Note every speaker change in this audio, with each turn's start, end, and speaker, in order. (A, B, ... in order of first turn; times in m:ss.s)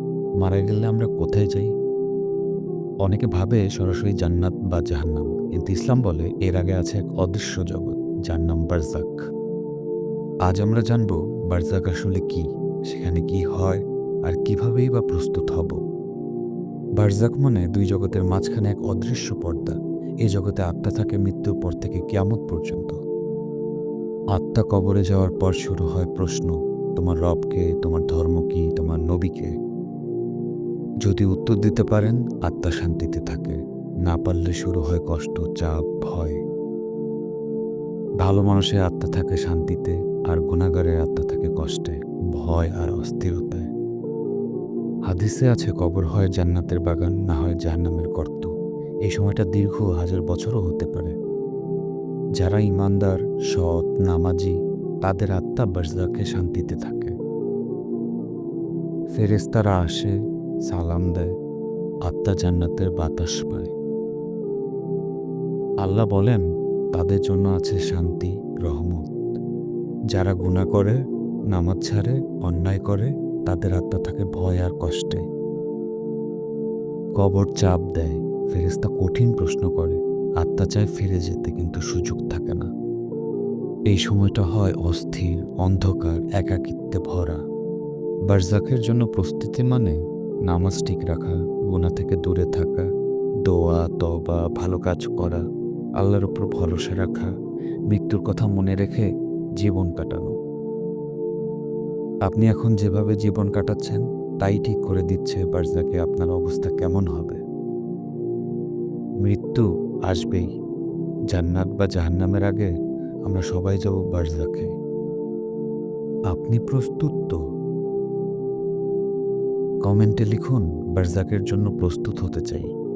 0:00.4-0:01.7 A
0:03.0-0:09.2 A
0:10.4-0:15.8 A
0:17.0-0:23.0 A
0:24.3-0:29.5 A
0:31.0-0:36.4 A
0:38.2-0:43.7 A
0:45.1-0:48.5 A
0:49.1-0:51.1 A
0:52.4-0:57.1 A
0:59.2-1:00.1 A
1:00.7-1:01.3 A
1:02.0-1:03.7 A
1:05.8-1:09.1 A
1:10.1-1:11.0 A
1:11.5-1:15.2 A
1:17.2-1:22.7 A
1:23.9-1:27.4 A
1:28.3-1:30.0 A
1:30.5-1:32.9 A
1:33.4-1:35.4 A
1:36.0-1:37.3 A
1:37.9-1:39.1 A
1:39.6-1:40.3 A
1:42.3-1:47.4 A
1:49.2-1:50.5 A
1:51.3-1:52.7 A
1:53.2-1:54.7 A
1:56.3-1:57.4 A
1:59.8-2:02.7 A